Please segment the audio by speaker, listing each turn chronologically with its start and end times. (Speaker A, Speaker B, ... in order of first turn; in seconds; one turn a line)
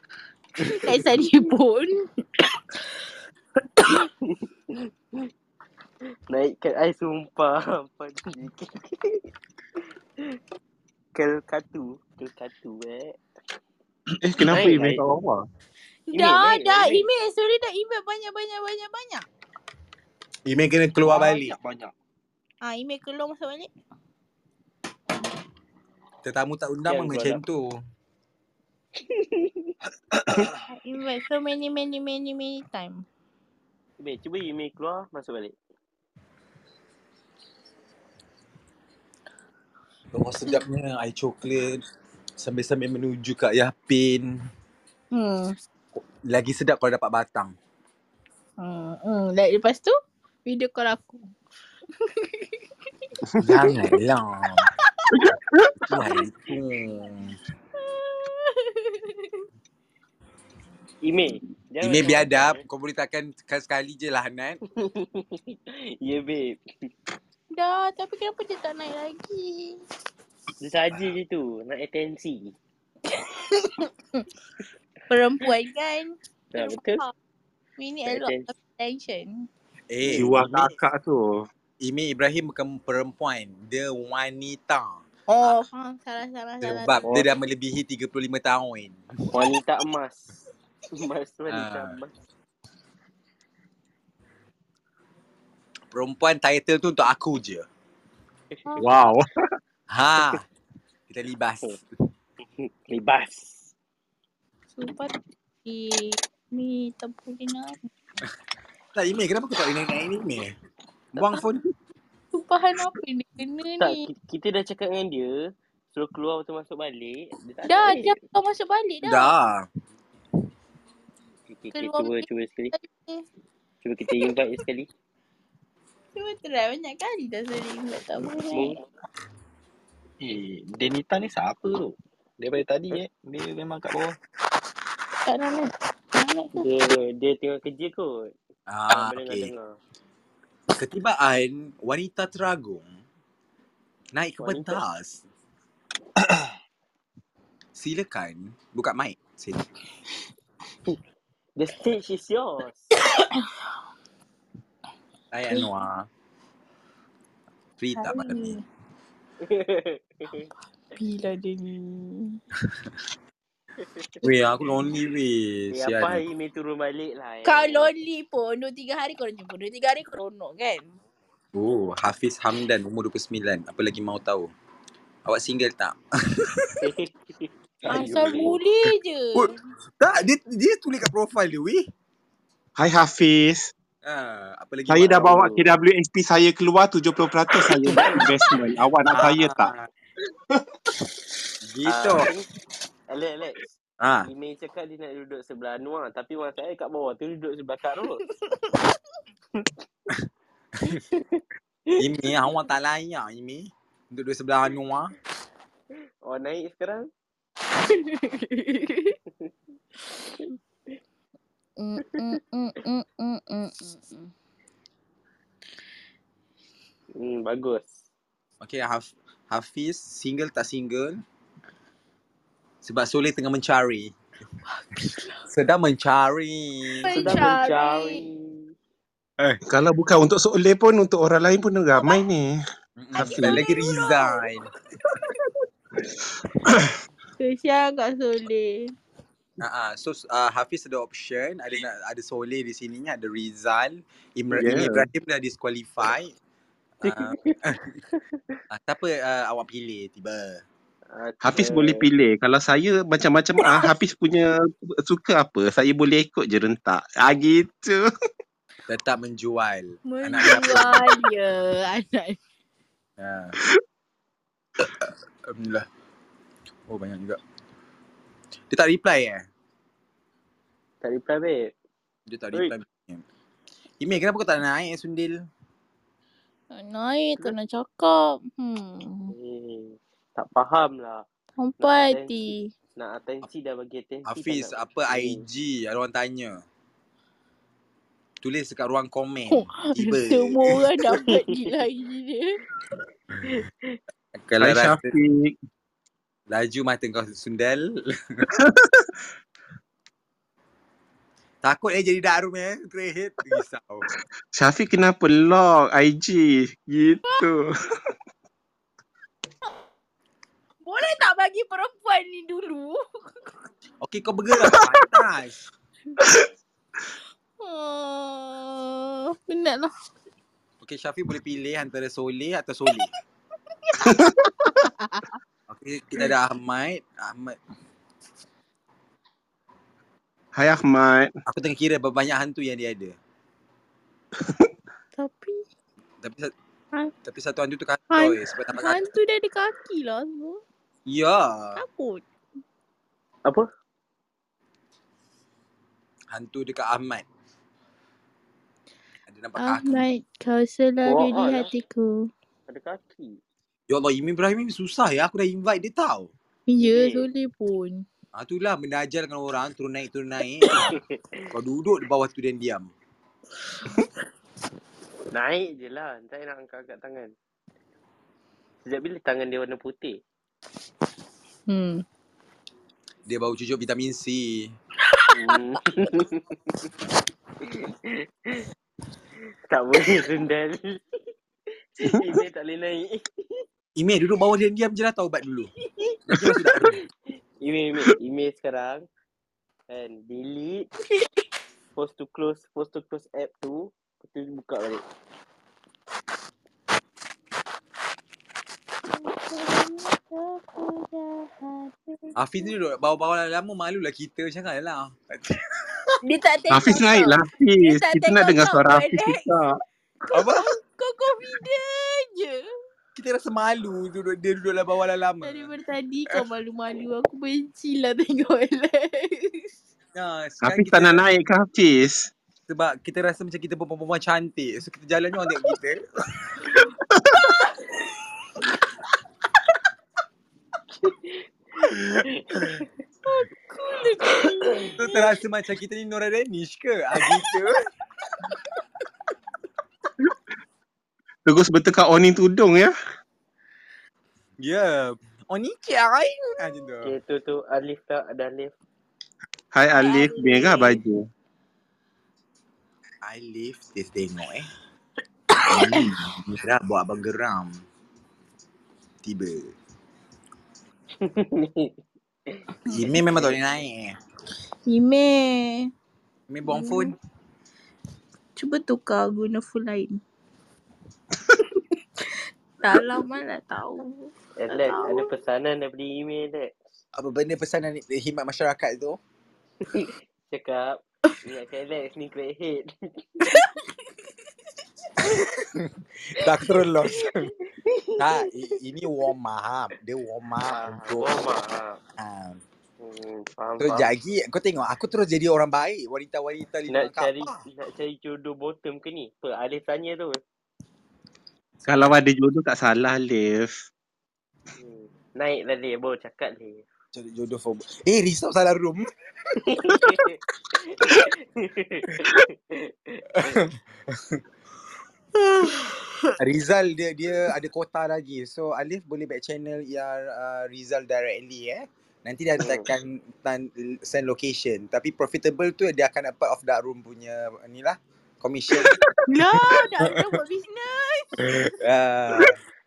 Speaker A: 0.6-2.1
Speaker B: 3.9-5.3
Speaker B: 6.3-9.3
Speaker B: 11.1-13.2
Speaker C: 14.2-15.4
Speaker B: 14.4-15.1
Speaker A: 16.1-19.3
Speaker B: 16.1-17.1
Speaker D: 20.4-21.6
Speaker E: 21.0-21.9
Speaker A: 22.6-23.7
Speaker D: 26.2-27.8
Speaker B: 26.9-27.4
Speaker B: 29.1-29.7
Speaker A: 30.7-33.0
Speaker B: 34.0-35.5
Speaker D: 40.1-41.8
Speaker D: 42.4-44.4
Speaker A: 45.1-45.5
Speaker D: 46.0-47.5
Speaker A: 48.6-49.9
Speaker A: 50.5-51.2
Speaker A: 52.2-52.5
Speaker D: 53.4-54.7
Speaker A: 54.8-55.1
Speaker C: 55.1-55.8
Speaker D: 55.9-57.4
Speaker A: 57.9-59.4
Speaker B: 61.0-62.6
Speaker D: 61.8-64.6
Speaker B: 64.7-66.6
Speaker A: 67.5-69.8
Speaker B: 70.6-72.5
Speaker A: 73.1-74.2
Speaker A: 75.1-77.1
Speaker B: 76.5-77.0
Speaker A: 77.8-79.5
Speaker B: 78.0-78.5
Speaker D: 79.9-80.7
Speaker C: 80.0-81.3
Speaker D: 81.8-85.6
Speaker A: 85.3-87.0
Speaker D: 86.6-89.3
Speaker B: 87.0-87.3
Speaker B: 89.3-92.1
Speaker D: 91.5-92.0
Speaker D: 95.9-97.7
Speaker C: 98.8-99.3
Speaker D: 99.9-100.5
Speaker D: 101.1-102.0
Speaker B: 102.6-103.7
Speaker A: 104.8-105.1
Speaker A: 105.6-107.9
Speaker D: 109.0-110.5
Speaker B: 111.2-111.4
Speaker D: 111.2-111.6
Speaker A: 112.3-114.1
Speaker B: 113.8-118.2
Speaker A: 117.7-119.3
Speaker D: 119.0-119.7
Speaker B: 121.5-122.7
Speaker A: 121.7-123.2
Speaker B: 123.8-124.9
Speaker A: 126.1-128.8
Speaker B: 128.5-128.8
Speaker E: 130.2-134.2
Speaker A: 135.3-136.7
Speaker B: 136.6-138.3
Speaker D: 138.7-139.5
Speaker B: 138.9-139.8
Speaker D: 140.7-142.9
Speaker D: 144.1-145.2
Speaker B: 144.4-144.8
Speaker D: 147.8-149.6
Speaker B: 151.6-152.9
Speaker A: 153.0-153.4
Speaker D: 155.3-156.1
Speaker D: 157.8-158.6
Speaker A: 157.9-158.6
Speaker B: 159.4-160.5
Speaker A: 160.9-162.4
Speaker B: 163.8-164.3
Speaker D: 164.2-166.2
Speaker B: 165.7-167.9
Speaker A: 167.4-170.9
Speaker D: 171.6-174.5
Speaker D: 175.2-176.8
Speaker B: 176.8-178.6
Speaker A: 177.9-179.6
Speaker D: 179.4-181.8
Speaker C: 182.8-183.7
Speaker D: 184.0-185.6
Speaker C: 184.9-189.7
Speaker B: 185.3-185.7
Speaker D: 189.1-189.9
Speaker D: 191.7-192.3
Speaker B: 191.8-192.5
Speaker B: 193.1-193.6
Speaker D: 194.0-194.3
Speaker B: 194.2-198.2
Speaker A: 198.2-198.8
Speaker B: 200.9-202.3
Speaker D: 202.0-205.2
Speaker B: 206.2-207.1
Speaker A: 207.8-209.2
Speaker A: 211.8-214.3
Speaker B: 217.1-218.0
Speaker D: 218.6-221.2
Speaker D: 222.8-224.1
Speaker A: 224.7-225.4
Speaker D: 225.5-227.1
Speaker A: 227.0-228.2
Speaker B: 227.1-228.6
Speaker C: 229.7-232.6
Speaker D: 233.0-234.7
Speaker C: 233.1-233.6
Speaker A: 233.4-234.5
Speaker C: 236.7-236.9
Speaker A: 237.4-238.9
Speaker D: 239.6-246.3
Speaker C: 244.5-245.1
Speaker D: 247.0-248.0
Speaker B: 247.0-247.6
Speaker D: 248.7-250.6
Speaker B: 251.1-252.1
Speaker C: 251.4-258.1
Speaker D: 258.9-261.1
Speaker A: 260.1-262.4
Speaker D: 263.2-263.6
Speaker D: 264.9-265.9
Speaker D: 266.9-267.4
Speaker D: 268.7-269.4
Speaker B: 271.0-271.7
Speaker D: 272.3-273.2
Speaker D: 274.0-275.4
Speaker A: 276.7-279.3
Speaker B: 279.3-281.2
Speaker A: 281.6-282.7
Speaker B: 281.8-285.4
Speaker D: 284.3-286.6
Speaker D: 288.4-290.7
Speaker A: 289.5-292.6
Speaker B: 291.2-291.5
Speaker B: 293.4-294.0
Speaker D: 294.4-295.1
Speaker C: 294.6-295.6
Speaker D: 296.5-298.4
Speaker C: 298.6-299.1
Speaker D: 301.6-304.1
Speaker C: 304.6-307.7
Speaker A: 310.8-313.5
Speaker D: 314.0-315.6
Speaker A: 317.6-319.9
Speaker D: 320.8-323.1
Speaker A: 323.8-325.3
Speaker C: 324.0-324.9
Speaker D: 325.7-327.6
Speaker C: 330.6-331.3
Speaker D: 331.5-333.2
Speaker A: 335.2-335.6
Speaker D: 336.2-336.5
Speaker D: 337.2-339.0
Speaker A: 338.1-340.6
Speaker D: 341.1-341.8
Speaker A: 341.7-342.2
Speaker D: 346.3-347.2
Speaker D: 349.3-350.1
Speaker A: 349.6-352.3
Speaker B: 351.1-351.7
Speaker B: 352.7-353.4
Speaker D: 353.9-356.3
Speaker A: 356.7-358.1
Speaker B: 356.8-357.3
Speaker D: 358.3-360.9
Speaker B: 360.7-361.4
Speaker D: 361.5-362.9
Speaker B: 365.3-367.3
Speaker B: 368.8-370.2
Speaker A: 371.7-372.0
Speaker D: 373.3-374.7
Speaker A: 375.1-375.5
Speaker B: 375.4-376.6
Speaker B: 377.6-378.6
Speaker B: 379.7-381.3
Speaker B: 382.0-383.6
Speaker D: 383.9-385.7
Speaker B: 385.9-386.2
Speaker D: 386.3-387.0
Speaker B: 387.6-389.0
Speaker B: 389.9-390.9
Speaker B: 391.9-395.0
Speaker A: 399.1-402.7
Speaker D: 402.4-406.1
Speaker A: 406.2-409.5
Speaker C: 406.7-409.7
Speaker A: 410.3-412.6
Speaker D: 410.3-410.7
Speaker D: 413.2-415.7
Speaker A: 415.4-419.7
Speaker D: 420.1-421.3
Speaker C: 420.6-422.3
Speaker D: 422.7-426.6
Speaker C: 427.1-427.4
Speaker A: 427.3-427.7
Speaker B: 431.0-431.4
Speaker B: 432.2-432.7
Speaker A: 433.2-435.3
Speaker D: 435.0-437.8
Speaker C: 441.4-442.9
Speaker D: 444.6-447.1
Speaker B: 447.0-448.7
Speaker C: 449.7-451.2
Speaker A: 449.9-451.0
Speaker D: 453.2-454.7
Speaker A: 455.6-456.1
Speaker D: 455.7-457.8
Speaker D: 459.2-459.7
Speaker B: 461.2-461.9
Speaker D: 462.9-464.2
Speaker A: 464.9-465.9
Speaker D: 466.5-467.1
Speaker A: 466.7-467.1
Speaker A: 468.6-470.2
Speaker A: 472.8-475.3
Speaker B: 474.6-476.8
Speaker D: 477.1-479.2
Speaker B: 479.8-483.2
Speaker A: 483.4-483.9
Speaker D: 485.2-487.5
Speaker B: 487.3-488.3
Speaker D: 488.2-491.3
Speaker B: 490.6-492.0
Speaker D: 492.2-492.6
Speaker B: 493.0-494.1
Speaker D: 493.8-497.6
Speaker B: 496.9-500.4
Speaker C: 501.8-503.9
Speaker B: 504.8-506.8
Speaker D: 507.1-510.1
Speaker B: 509.7-513.6
Speaker D: 513.5-514.4
Speaker A: 515.5-516.3
Speaker D: 516.4-529.0
Speaker B: 522.6-522.9
Speaker C: 528.7-529.0
Speaker A: 529.3-531.7
Speaker D: 531.8-532.5